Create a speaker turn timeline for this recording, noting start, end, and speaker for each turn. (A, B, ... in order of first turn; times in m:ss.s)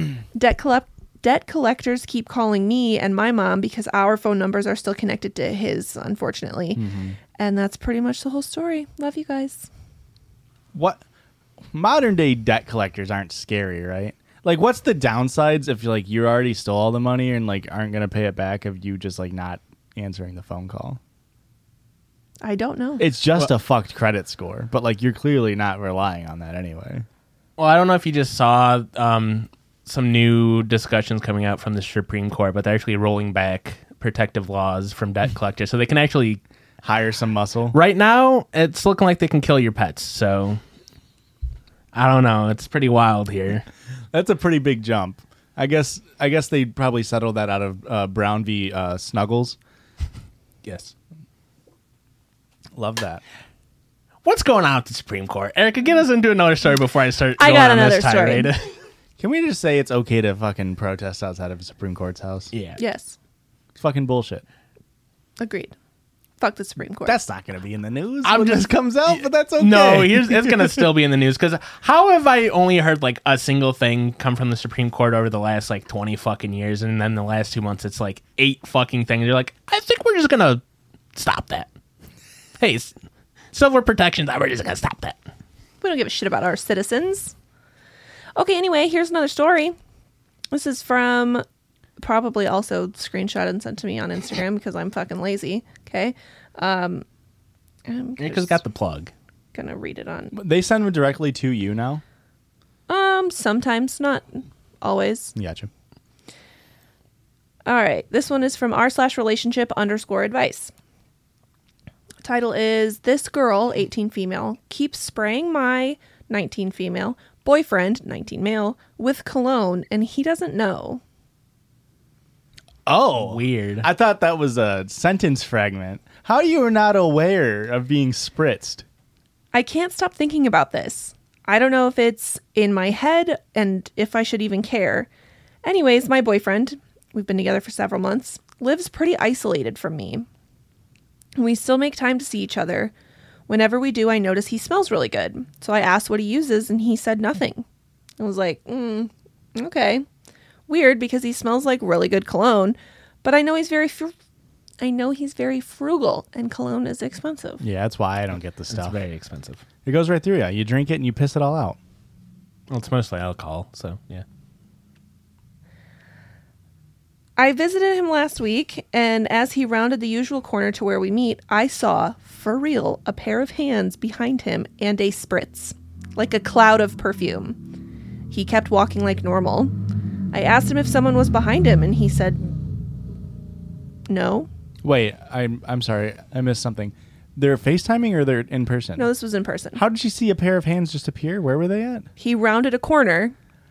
0:00.3-0:06.8 A
0:06.7-0:07.2 B
0:07.4-0:09.7 A
0:10.7-0:11.0 B
0:11.7-0:21.0 B
0:22.4-0:23.1 A
0:23.0-0:27.0 B
0:27.6-0:36.4 C
0:36.8-0:37.8 B
0:37.7-0:40.6 C
0:41.9-0:43.6 C
0:44.1-0:49.6 B
0:50.6-0:50.9 C
0:52.7-0:53.2 B
0:54.2-0:58.7 C
0:57.4-0:58.5 A
0:59.2-1:02.5 B
1:02.5-1:02.8 C
1:02.8-1:03.2 A
1:03.8-1:04.4 B
1:05.4-1:05.7 A
1:06.4-1:07.2 A
1:07.0-1:10.8 B
1:08.2-1:20.6 C
1:21.1-1:21.7 C
1:22.6-1:22.9 C
1:23.5-1:25.2 C
1:25.8-1:27.3 A
1:28.4-1:29.7 A
1:30.5-1:31.4 A
1:32.0-1:37.0 A
1:37.9-1:38.6 A
1:38.2-1:39.1 C
1:39.5-1:40.3 A
1:40.3-1:42.0 B
1:42.9-1:45.3 A
1:45.3-1:45.7 B
1:47.6-1:50.7 A
1:52.2-2:01.0 A
2:02.9-2:08.8 B
2:03.2-2:03.9 C
2:09.5-2:15.1 A
2:15.6-2:20.2 A
2:21.4-2:22.9 A
2:23.5-2:27.6 A
2:28.2-2:30.0 A
2:30.7-2:34.1 A
2:34.8-2:37.6 A
2:37.6-2:39.0 B
2:38.7-2:39.6 C
2:39.8-2:41.8 B
2:42.7-2:44.2 C
2:47.4-2:57.6 A
2:58.3-2:59.7 A
3:00.3-3:02.5 A
3:04.1-3:04.5 A
3:04.8-3:09.1 B
3:09.0-3:09.8 A
3:09.7-3:12.1 B
3:12.2-3:13.3 A